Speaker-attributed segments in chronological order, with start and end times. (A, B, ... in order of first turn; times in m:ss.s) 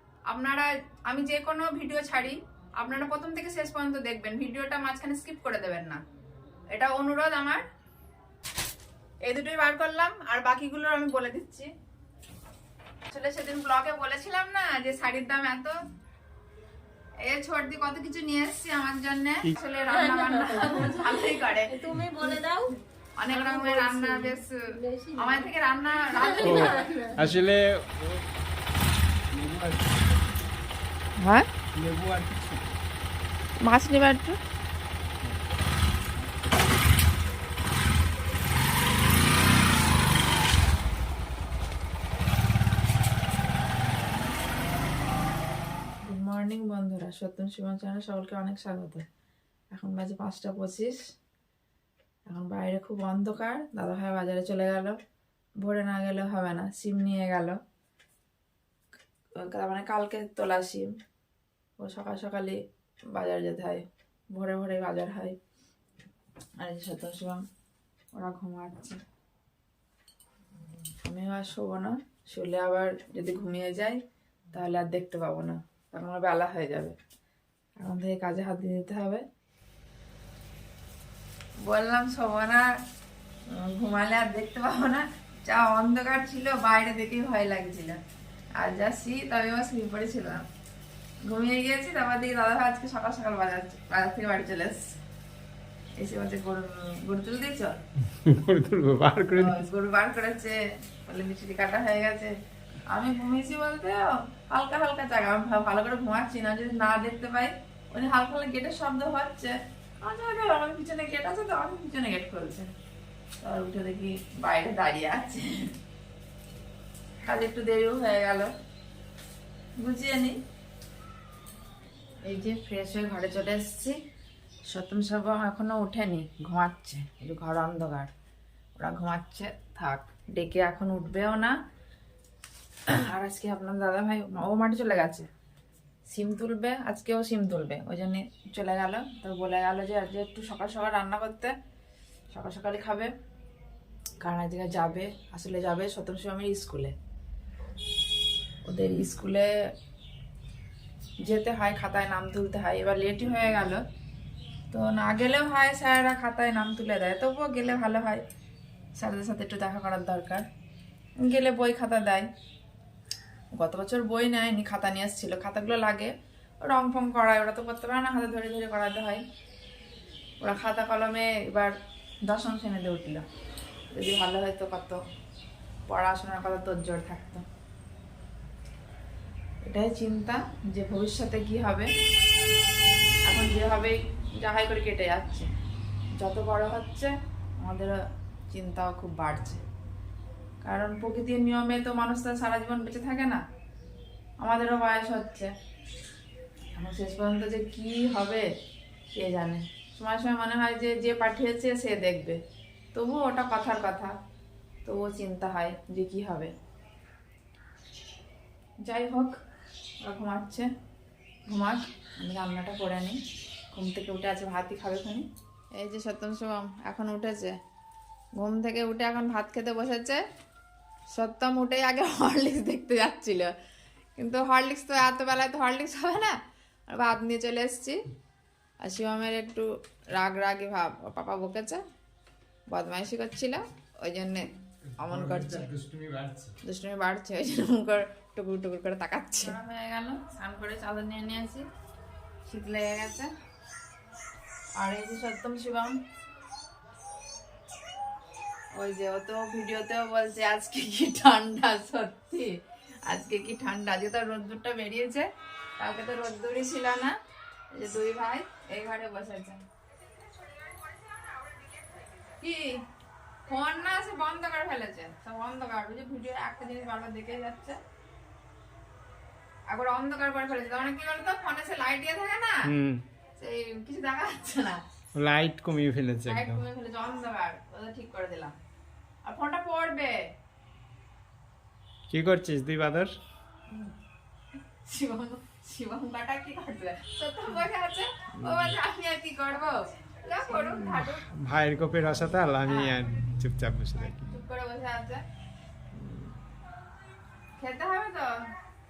0:00.3-0:06.0 A
0:06.7-0:07.6 A
0:09.2-0:11.7 A
0:13.1-0:15.8 A
0:17.2-0:22.3 A
0:19.9-0:21.0 B
0:21.7-0:22.7 B
0:23.2-0:24.6 A
0:23.3-0:25.5 B
0:25.2-0:26.9 A
0:26.1-0:27.2 B
0:26.4-0:28.2 C
0:29.3-0:30.3 C
0:31.2-0:31.5 A
0:31.7-0:32.7 C
0:33.6-0:34.4 A
0:46.0-0:49.0 A
0:49.7-0:51.0 A
0:52.3-0:55.0 A
0:55.6-0:57.6 A
0:59.4-1:00.9 A
1:01.8-1:02.6 A
1:03.1-1:05.4 A
1:06.6-1:07.4 A
1:08.2-1:09.0 A
1:11.0-1:14.0 A
1:14.5-1:17.0 A
1:17.8-1:19.2 A
1:21.6-1:22.7 A
1:23.5-1:28.0 A
1:28.6-1:30.4 A
1:31.2-1:35.0 A
1:36.0-1:37.8 A
1:38.2-1:39.6 C
1:39.3-1:42.3 A
1:42.9-1:52.7 A
1:53.4-1:55.7 A
1:57.3-1:58.5 A
1:59.8-2:00.4 A
2:02.3-2:04.0 A
2:04.7-2:08.1 A
2:08.8-2:11.6 A
2:13.0-2:15.3 A
2:16.1-2:21.5 A
2:22.3-2:23.1 A
2:24.2-2:26.9 A
2:28.7-2:29.5 A
2:31.2-2:33.8 A
2:34.7-2:38.2 A
2:39.0-2:40.5 A
2:41.2-2:42.3 A
2:43.6-2:49.2 A
2:50.4-2:51.7 A
2:52.2-2:53.2 A
2:53.9-2:55.0 A
2:55.9-2:57.4 A
2:59.7-3:01.9 A
3:03.3-3:05.5 A
3:06.2-3:08.0 A
3:08.5-3:09.6 A
3:10.6-3:13.4 A
3:14.4-3:15.5 A
3:16.8-3:18.5 A
3:19.2-3:22.4 A
3:22.9-3:24.1 A
3:24.8-3:26.5 A
3:28.9-3:29.3 A
3:30.0-3:30.7 A
3:31.5-3:33.2 A
3:33.7-3:37.6 A
3:38.4-3:40.2 A
3:41.2-3:43.5 A
3:44.2-3:46.4 A
3:46.9-3:48.0 A
3:48.8-3:51.8 A
3:52.7-3:55.7 A
3:55.0-3:56.6 C
3:56.6-4:01.6 A
4:02.5-4:03.3 A
4:04.8-4:06.0 A
4:08.8-4:15.3 A
4:15.8-4:17.1 A
4:17.7-4:19.6 A
4:22.4-4:22.7 A
4:23.5-4:27.8 A
4:29.7-4:32.7 A
4:32.7-4:33.0 C
4:33.4-4:34.8 A
4:35.2-4:36.6 C
4:36.3-4:38.5 A
4:39.3-4:40.2 A
4:42.1-4:43.2 C
4:44.8-4:51.2 A
4:48.4-4:48.8 C
4:50.7-4:54.4 C
4:52.6-4:53.0 A
4:54.2-4:55.2 A
4:56.0-4:56.3 C
4:57.6-4:58.3 A